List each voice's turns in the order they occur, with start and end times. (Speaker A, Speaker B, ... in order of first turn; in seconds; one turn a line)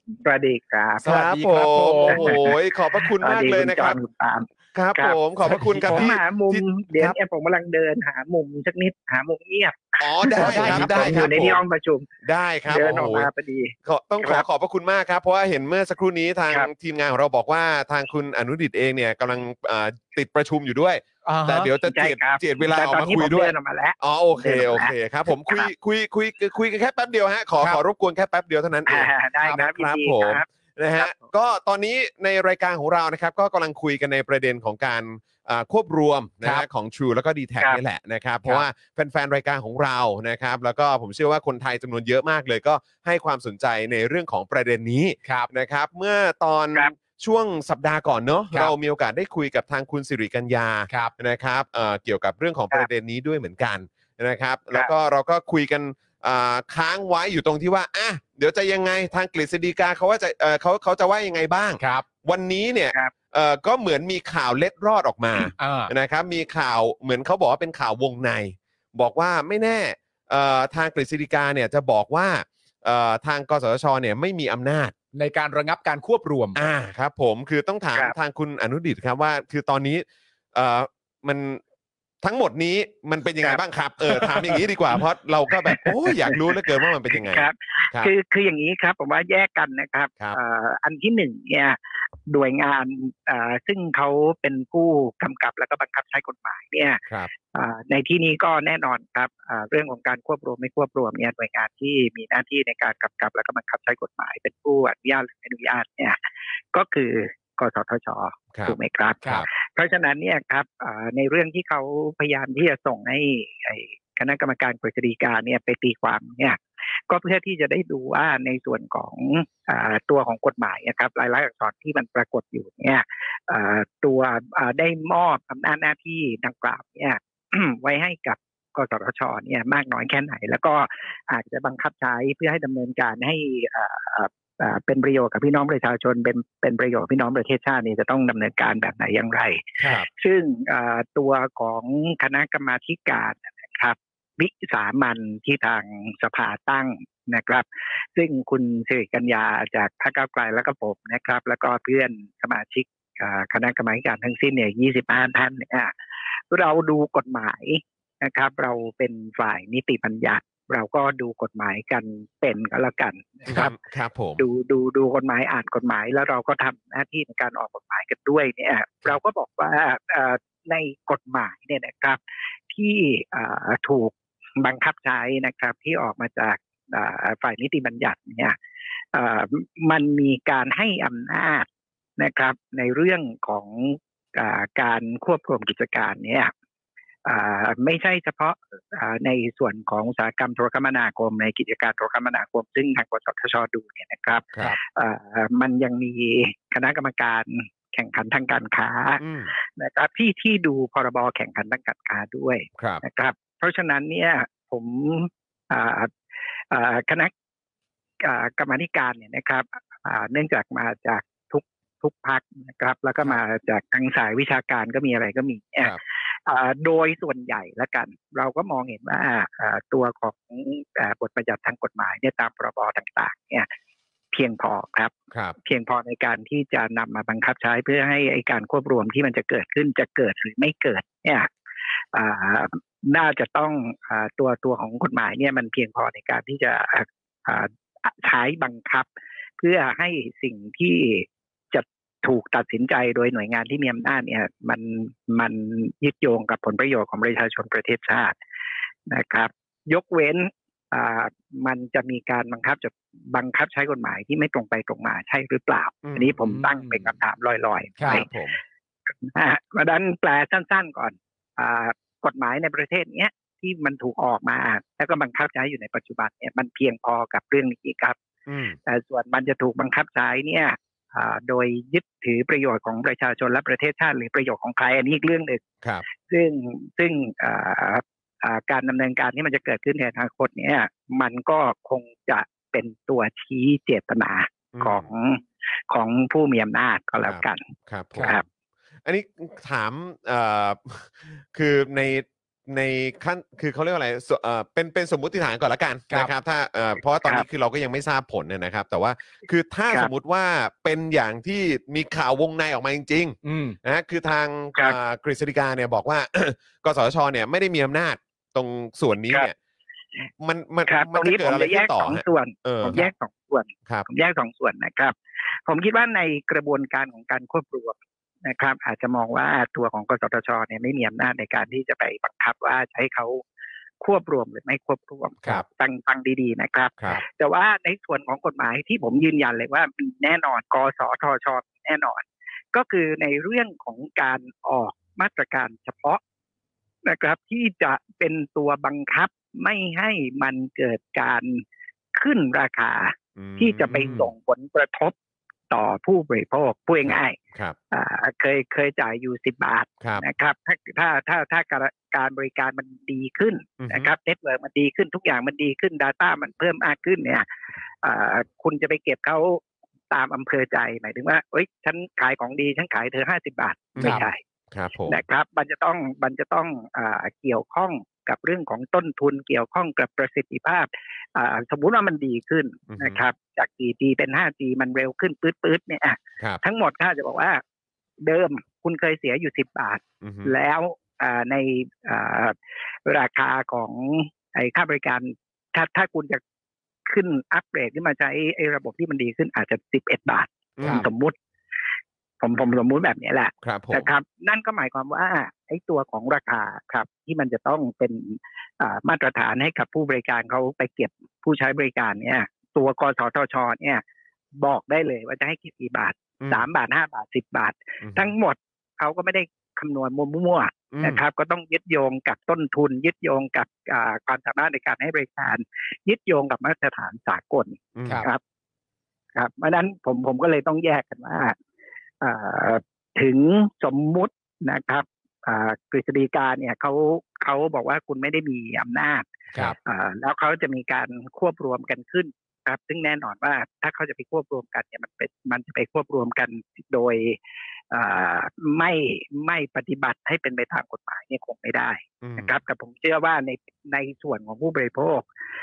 Speaker A: 0.1-1.2
Speaker B: 1.0-2.5
Speaker C: 1.0-4.0
Speaker A: 2.0-5.2
Speaker C: 4.7-6.7
Speaker B: 5.4-6.1
Speaker A: 5.9-12.1
Speaker C: 10.0-11.6
Speaker B: 10.3-11.3
Speaker C: 12.2-13.3
Speaker A: 12.7-14.4
Speaker C: 13.8-74.9
Speaker B: 21.2-21.7
Speaker A: 21.8-25.7
Speaker A: 28.9-31.3
Speaker B: 61.8-62.0
Speaker B: 65.6-65.9
Speaker B: 75.1-76.6
Speaker C: 76.5-81.6
Speaker C: 82.2-88.1
Speaker A: 84.1-84.5
Speaker A: 85.7-106.2
Speaker A: 106.7-155.9
Speaker C: 108.5-109.5
Speaker A: 156.5-163.7
Speaker C: 163.4-164.4
Speaker A: 164.4-178.5
Speaker A: 179.1-186.5
Speaker A: 187.2-206.1
Speaker C: 199.2-199.5
Speaker C: 202.8-203.0
Speaker A: 206.7-207.3
Speaker A: 208.2-223.7
Speaker A: 224.3-231.5
Speaker A: 232.1-239.1
Speaker A: 239.6-248.3
Speaker A: 249.1-258.3
Speaker C: 256.0-256.4
Speaker B: 256.4-257.0
Speaker B: 258.0-258.2
Speaker C: 258.1-258.6
Speaker A: 259.2-268.2
Speaker C: 268.5-268.8
Speaker A: 268.9-275.6
Speaker A: 276.2-288.4
Speaker C: 284.7-285.1
Speaker C: 287.2-288.4
Speaker C: 289.0-309.5
Speaker B: 303.4-303.8
Speaker C: 310.4-313.0
Speaker A: 310.9-315.1
Speaker A: 315.6-323.4
Speaker A: 324.0-336.2
Speaker A: 337.1-341.6
Speaker A: 342.1-345.1
Speaker C: 343.4-344.3
Speaker B: 343.9-344.2
Speaker A: 345.7-347.4
Speaker C: 347.0-347.8
Speaker A: 347.9-357.4
Speaker C: 353.8-354.1
Speaker A: 358.0-364.4
Speaker C: 363.9-365.2
Speaker B: 364.0-364.2
Speaker A: 365.1-377.6
Speaker C: 372.9-373.2
Speaker A: 378.2-386.4
Speaker C: 380.2-380.5
Speaker A: 387.1-391.4
Speaker C: 390.8-391.1
Speaker A: 392.4-404.0
Speaker C: 393.6-394.1
Speaker A: 404.6-418.4
Speaker C: 406.4-406.6
Speaker C: 408.0-408.3
Speaker C: 410.9-411.2
Speaker C: 417.9-418.2
Speaker A: 419.3-421.6
Speaker A: 422.2-429.2
Speaker A: 429.8-437.4
Speaker A: 437.9-445.2
Speaker C: 442.2-442.5